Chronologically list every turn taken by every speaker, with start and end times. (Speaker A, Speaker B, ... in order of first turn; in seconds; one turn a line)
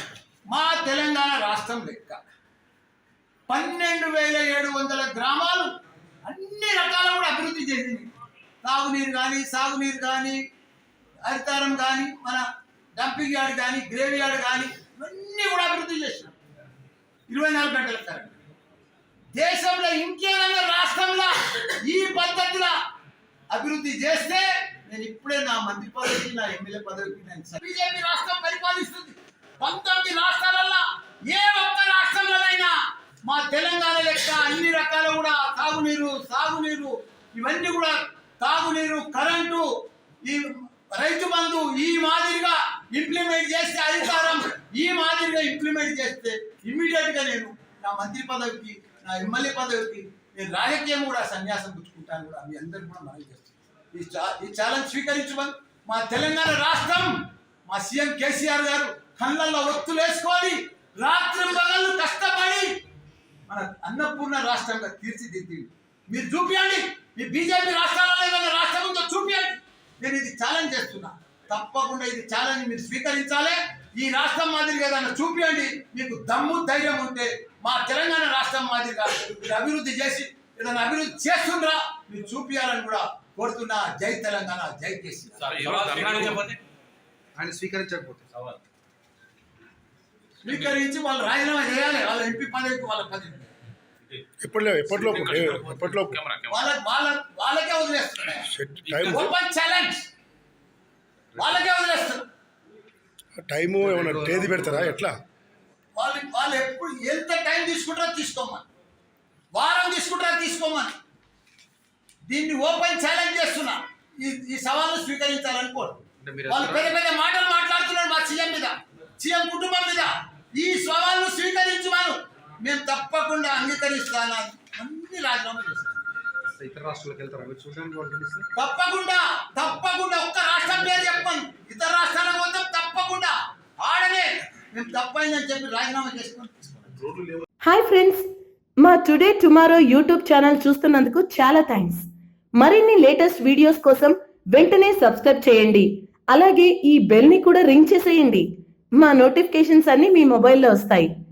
Speaker A: 0.5-2.2
Speaker A: 3.5-5.7
Speaker A: 6.2-8.1
Speaker A: 8.6-10.4
Speaker A: 11.2-12.4
Speaker A: 13.0-16.3
Speaker A: 17.3-18.4
Speaker A: 19.3-22.8
Speaker A: 23.5-32.7
Speaker A: 33.2-39.7
Speaker A: 40.2-57.1
Speaker A: 57.7-62.7
Speaker A: 63.5-86.4
Speaker B: 85.4-86.6
Speaker C: 87.3-88.5
Speaker A: 90.4-93.5
Speaker B: 90.5-90.8
Speaker D: 94.4-96.2
Speaker B: 94.9-96.7
Speaker A: 96.5-100.0
Speaker D: 98.5-99.3
Speaker B: 98.8-99.2
Speaker A: 101.3-102.2
Speaker D: 103.3-105.2
Speaker C: 103.9-104.9
Speaker A: 106.0-108.6
Speaker A: 109.5-110.9
Speaker A: 112.3-126.1
Speaker C: 116.2-116.9
Speaker C: 126.5-128.5
Speaker A: 128.6-136.5
Speaker E: 137.6-138.3
Speaker E: 138.8-142.1
Speaker E: 142.6-151.1